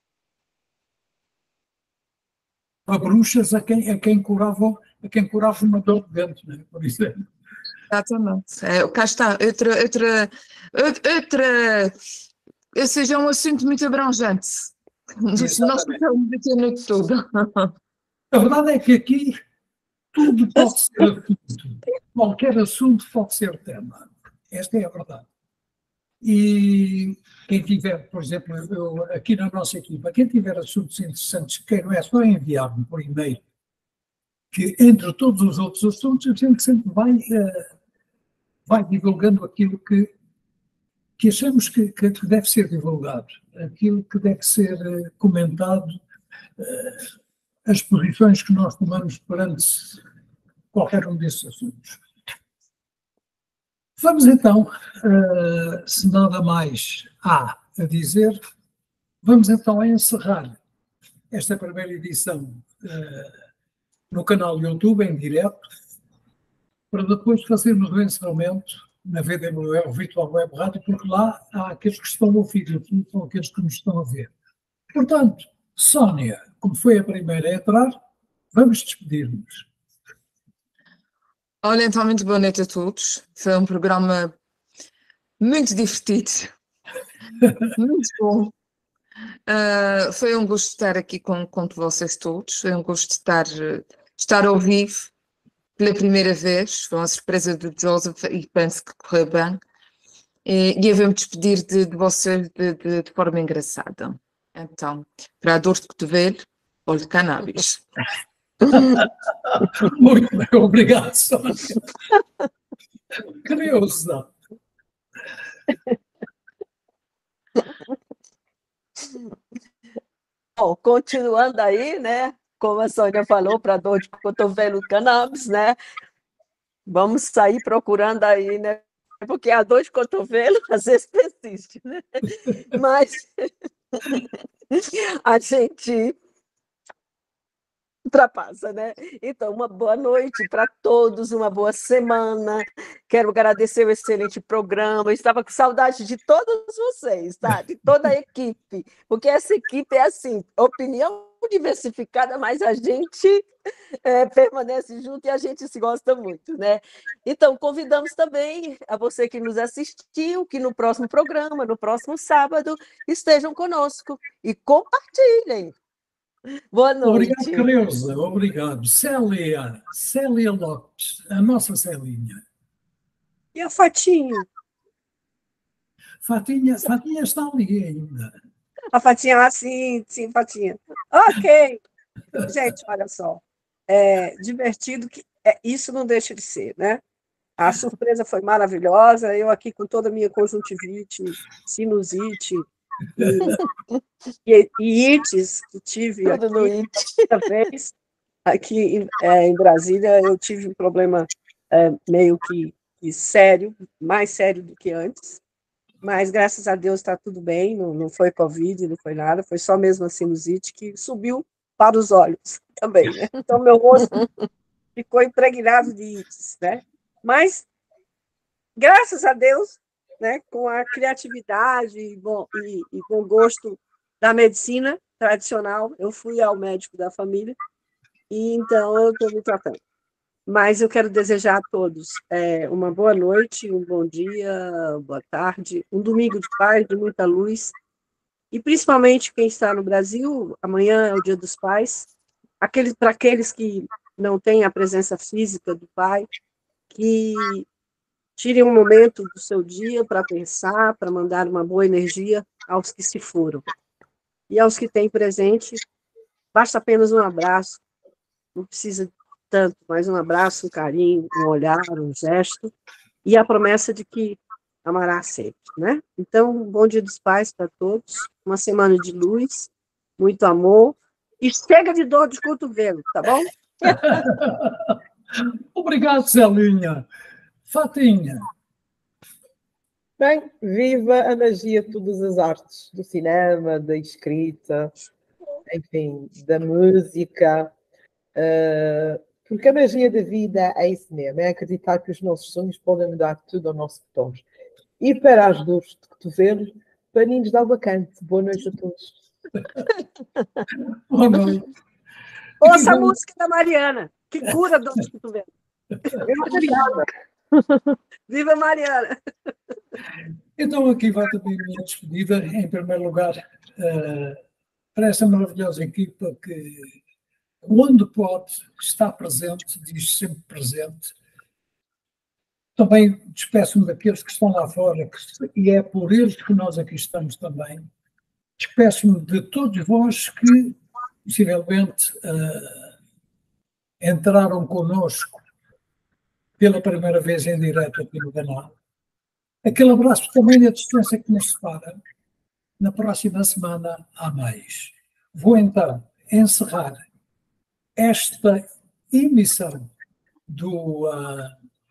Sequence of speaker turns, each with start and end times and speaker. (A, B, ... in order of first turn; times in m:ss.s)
0:02.9-0:07.2 A
0:07.9-0:11.9 B
0:12.7-0:17.7 B
0:15.3-0:16.0 A
0:18.3-0:19.4 A
0:20.1-0:25.3 A
0:26.2-0:33.4 A
0:34.5-0:37.7 A
0:38.6-0:40.1 A
0:41.2-0:45.9 A
0:46.6-0:47.0 A
0:47.6-0:50.0 A
0:50.7-0:52.0 A
0:54.0-0:58.4 A
0:59.2-1:00.6 A
1:01.3-1:03.3 A
1:04.1-1:05.6 A
1:06.9-1:14.3 A
1:14.9-1:18.0 A
1:18.5-1:19.7 A
1:21.6-1:24.4 B
1:25.4-1:26.5 B
1:27.7-1:28.5 B
1:29.5-1:35.1 B
1:35.8-1:39.6 B
1:40.4-1:47.8 B
1:48.7-1:51.8 A
1:53.4-1:54.3 A
2:00.6-2:05.8 C
2:06.9-2:16.2 C
2:18.1-2:33.5 C
2:34.0-2:45.7 C
2:46.7-2:47.6 C
2:47.0-2:52.4 A
2:53.5-2:54.4 D
2:56.2-2:58.3 A
2:58.9-3:01.8 D
3:02.4-3:07.0 D
3:07.6-3:12.6 D
3:13.2-3:13.6 D
3:14.4-3:16.7 D
3:16.2-3:17.5 C
3:17.3-3:17.9 D
3:18.4-3:25.4 D
3:26.0-3:34.2 D
3:35.0-3:37.7 D
3:38.8-3:47.6 D
3:48.3-3:49.8 D
3:50.5-3:57.7 D
3:58.5-4:02.1 D
4:02.6-4:06.3 D
4:06.9-4:07.7 D
4:08.4-4:13.6 D
4:14.5-4:15.8 D
4:16.5-4:17.8 D
4:18.5-4:22.7 D
4:23.2-4:33.5 D
4:33.9-4:34.9 A
4:35.7-4:37.0 A
4:37.7-4:38.5 A
4:40.2-4:44.9 E
4:45.6-4:47.7 E
4:48.3-4:54.4 E
4:55.0-4:59.1 E
5:01.1-5:01.7 A
5:02.6-5:05.5 D
5:02.6-5:03.2 A
5:06.2-5:07.0 E
5:08.3-5:09.5 D
5:10.6-5:14.4 A
5:14.9-5:17.0 A
5:17.6-5:21.1 A
5:22.8-5:27.9 A
5:28.6-5:32.9 A
5:34.0-5:35.4 A
5:36.6-5:38.7 A
5:39.6-5:42.0 A
5:42.8-5:47.0 A
5:48.0-5:49.9 A
5:50.5-5:51.5 A